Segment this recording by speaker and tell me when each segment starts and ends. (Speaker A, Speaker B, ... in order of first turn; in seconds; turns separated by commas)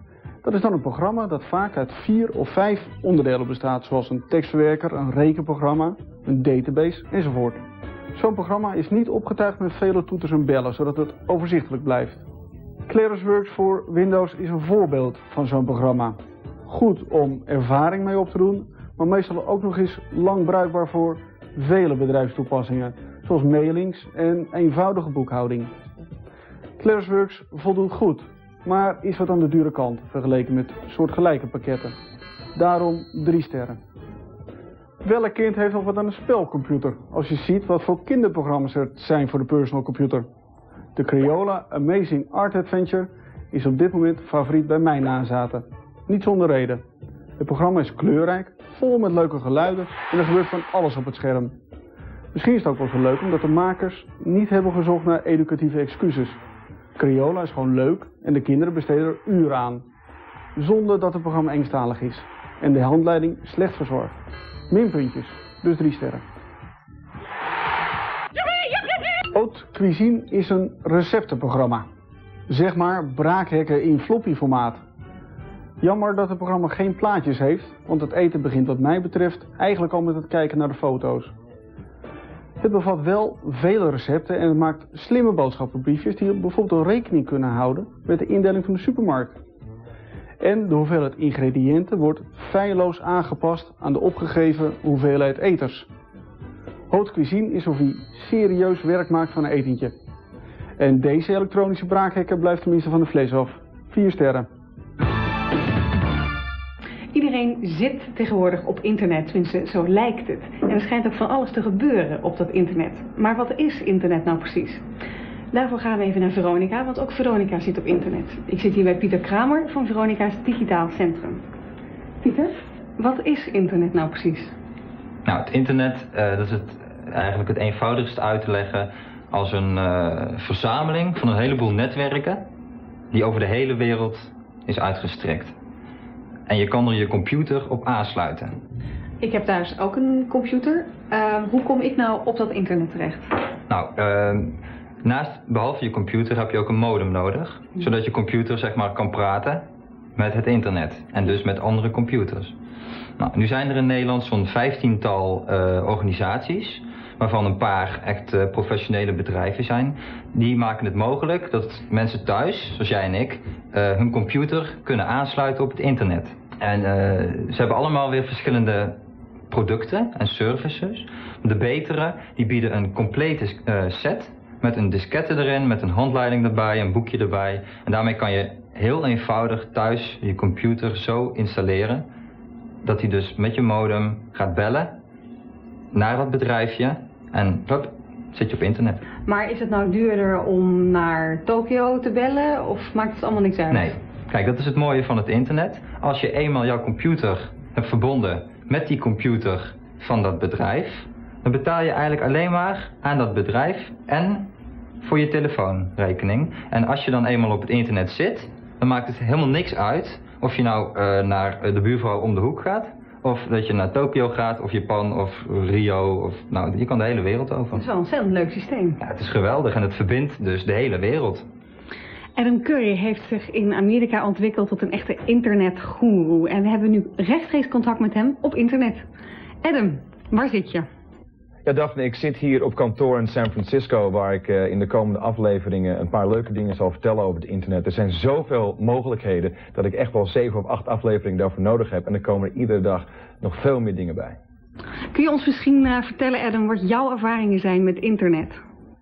Speaker A: 0.4-7.6, Speaker A: 8.1-12.2, Speaker A: 12.9-25.7, Speaker A: 26.8-31.9, Speaker A: 32.5-33.8, Speaker A: 35.0-40.3, Speaker A: 41.0-46.8, Speaker A: 47.4-51.5, Speaker A: 52.3-56.4, Speaker A: 57.0-59.8, Speaker A: 60.6-64.2, Speaker A: 64.7-66.2, Speaker A: 69.3-71.9, Speaker A: 72.5-74.8, Speaker A: 75.8-81.3, Speaker A: 82.6-89.4, Speaker A: 90.4-95.9, Speaker A: 96.9-99.9, Speaker A: 100.8-104.5, Speaker B: 107.1-114.8, Speaker B: 115.5-121.4, Speaker B: 122.2-124.5, Speaker C: 125.3-132.4, Speaker C: 133.1-135.6, Speaker C: 136.5-138.6, Speaker B: 139.2-143.3, Speaker C: 143.7-152.6, Speaker C: 153.2-182.1, Speaker C: 182.8-185.0, Speaker C: 185.9-189.0, Speaker B: 189.3-193.9, Speaker C: 193.7-217.8, Speaker B: 217.7-219.0, Speaker C: 219.0-221.5, Speaker B: 222.4-229.1, Speaker B: 229.6-230.9, Speaker D: 231.7-244.4, Speaker B: 245.1-248.6